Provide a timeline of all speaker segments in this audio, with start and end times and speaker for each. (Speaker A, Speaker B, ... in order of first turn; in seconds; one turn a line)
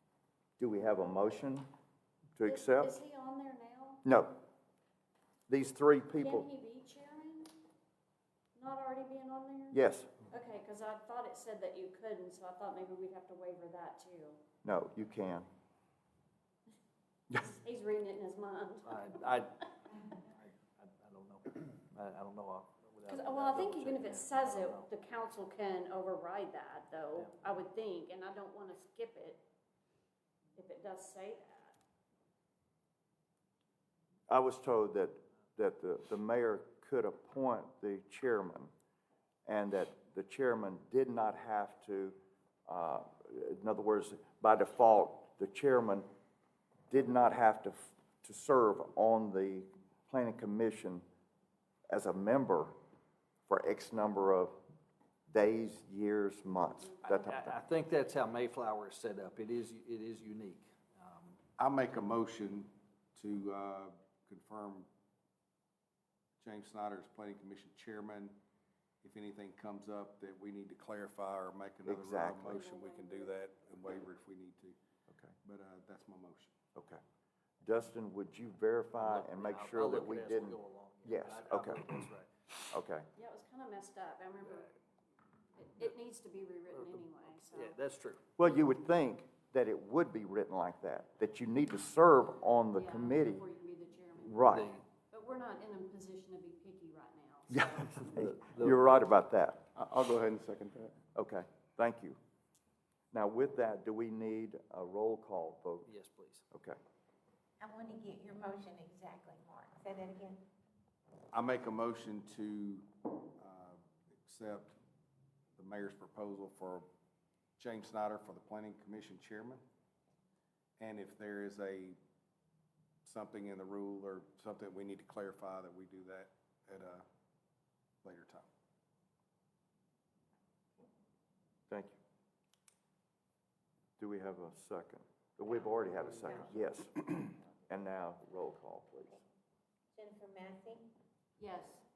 Speaker A: 0.6-1.7
Speaker A: 2.4-3.0
Speaker B: 2.4-4.0
Speaker A: 4.0-4.4
Speaker A: 5.5-6.5
Speaker B: 6.2-7.5
Speaker B: 8.6-14.4
Speaker A: 9.7-10.1
Speaker A: 14.6-15.5
Speaker B: 17.3-19.0
Speaker C: 18.9-19.7
Speaker C: 20.2-24.9
Speaker B: 23.1-29.4
Speaker B: 30.6-31.8
Speaker A: 34.3-38.7
Speaker A: 39.5-46.1
Speaker A: 46.9-51.0
Speaker A: 51.9-52.8
Speaker A: 53.5-54.6
Speaker A: 55.3-57.6
Speaker C: 57.1-61.4
Speaker D: 61.6-64.9
Speaker D: 66.4-68.4
Speaker D: 69.0-74.8
Speaker A: 71.8-72.6
Speaker B: 72.4-74.0
Speaker A: 75.1-75.3
Speaker D: 75.4-76.5
Speaker A: 76.8-77.0
Speaker A: 77.6-81.8
Speaker C: 79.0-82.3
Speaker A: 82.7-83.1
Speaker B: 83.2-84.7
Speaker B: 85.6-87.8
Speaker C: 86.7-88.2
Speaker A: 88.4-93.5
Speaker B: 92.7-98.0
Speaker A: 94.2-94.8
Speaker C: 94.5-94.8
Speaker A: 97.5-99.7
Speaker C: 98.0-98.9
Speaker A: 101.2-102.2
Speaker A: 103.1-105.9
Speaker C: 105.9-106.5
Speaker A: 106.5-106.8
Speaker E: 107.6-110.4
Speaker D: 111.3-114.8
Speaker D: 115.6-116.9
Speaker D: 117.6-119.6
Speaker D: 120.8-122.0
Speaker D: 123.0-127.0
Speaker D: 128.0-128.5
Speaker A: 131.7-132.0
Speaker A: 134.0-139.2
Speaker E: 139.9-140.9
Speaker B: 141.4-141.8